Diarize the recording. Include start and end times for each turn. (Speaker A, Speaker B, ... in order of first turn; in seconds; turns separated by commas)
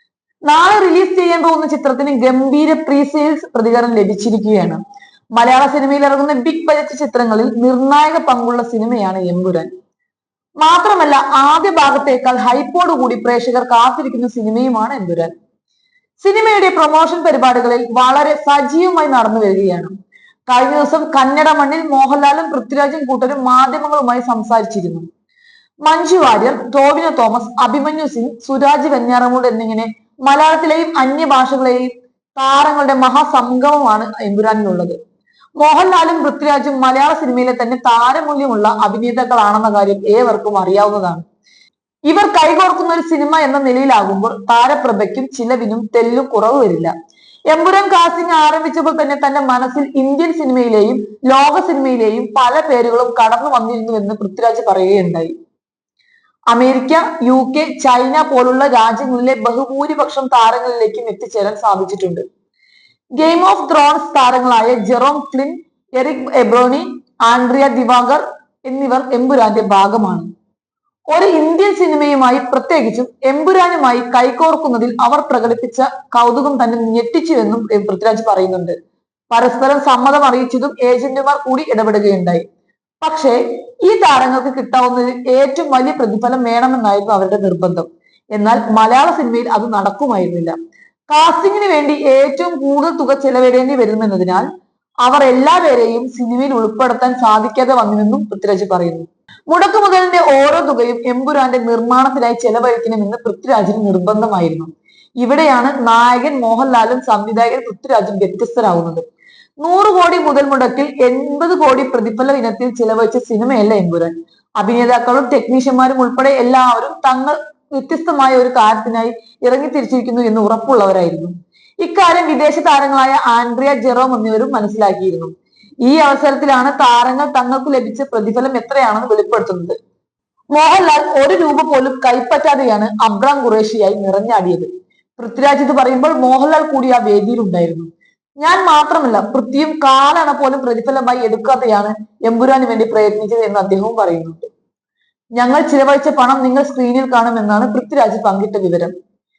Speaker A: 0.5-4.8, Speaker A: 5.3-9.7, Speaker A: 10.6-15.3, Speaker A: 16.2-19.9, Speaker A: 20.5-25.0, Speaker A: 25.9-35.0, Speaker A: 35.6-41.2, Speaker A: 42.1-46.9, Speaker A: 47.5-55.3, Speaker A: 56.5-62.2, Speaker A: 63.2-70.3, Speaker A: 71.1-78.7, Speaker A: 79.3-82.5, Speaker A: 83.0-90.5, Speaker A: 91.1-94.5, Speaker A: 95.0-104.7, Speaker A: 105.2-109.0, Speaker A: 109.6-125.3, Speaker A: 125.8-129.8, Speaker A: 130.5-137.9, Speaker A: 138.4-144.5, Speaker A: 145.4-148.9